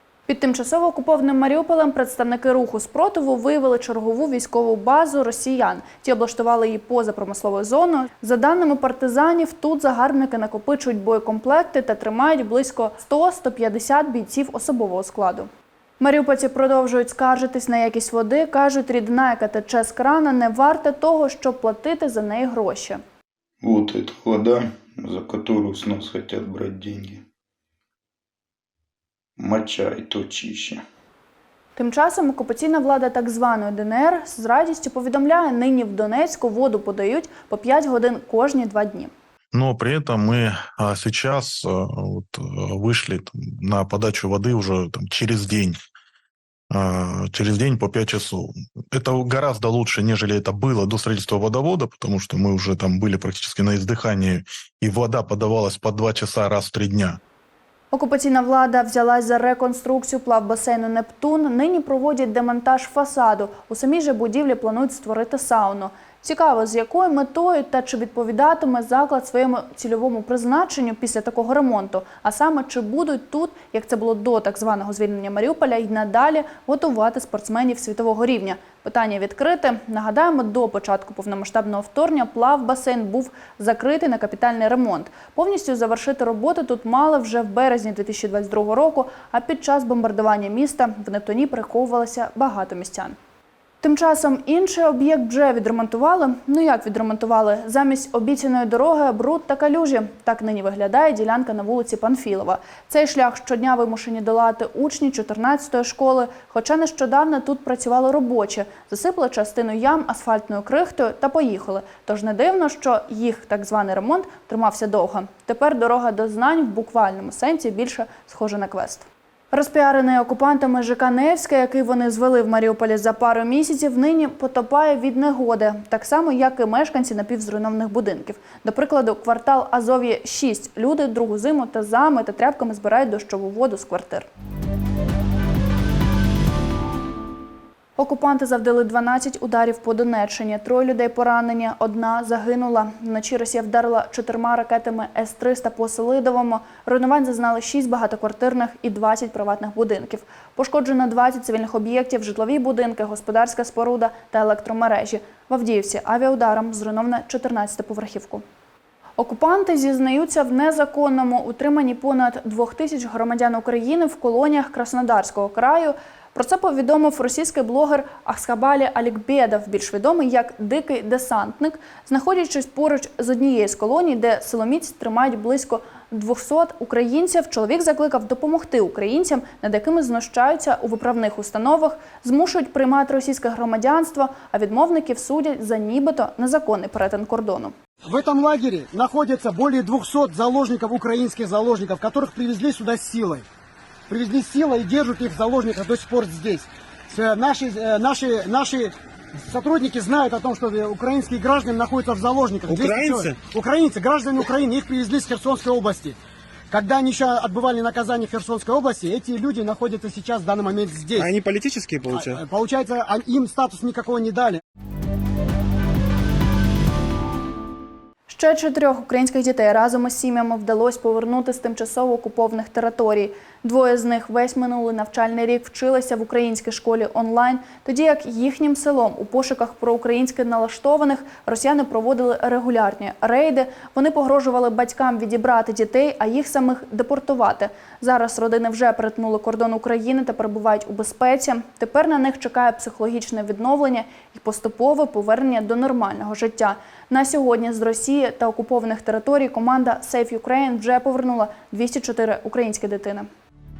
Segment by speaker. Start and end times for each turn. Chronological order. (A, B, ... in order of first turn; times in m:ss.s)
0:00.3-0:15.5 A
0:16.0-0:23.0 A
0:23.6-0:27.2 B
0:29.4-0:30.8 B
0:31.8-0:39.1 A
0:39.5-0:45.8 C
0:46.7-0:57.2 C
0:57.9-1:33.2 A
1:33.8-2:14.3 A
2:18.0-2:38.4 A
2:39.2-3:07.7 A
3:08.0-3:13.4 D
3:14.1-3:26.2 D
3:22.7-3:23.4 E
3:26.7-3:31.3 D
3:31.1-3:32.4 E
3:32.1-3:34.6 D
3:38.3-4:13.3 A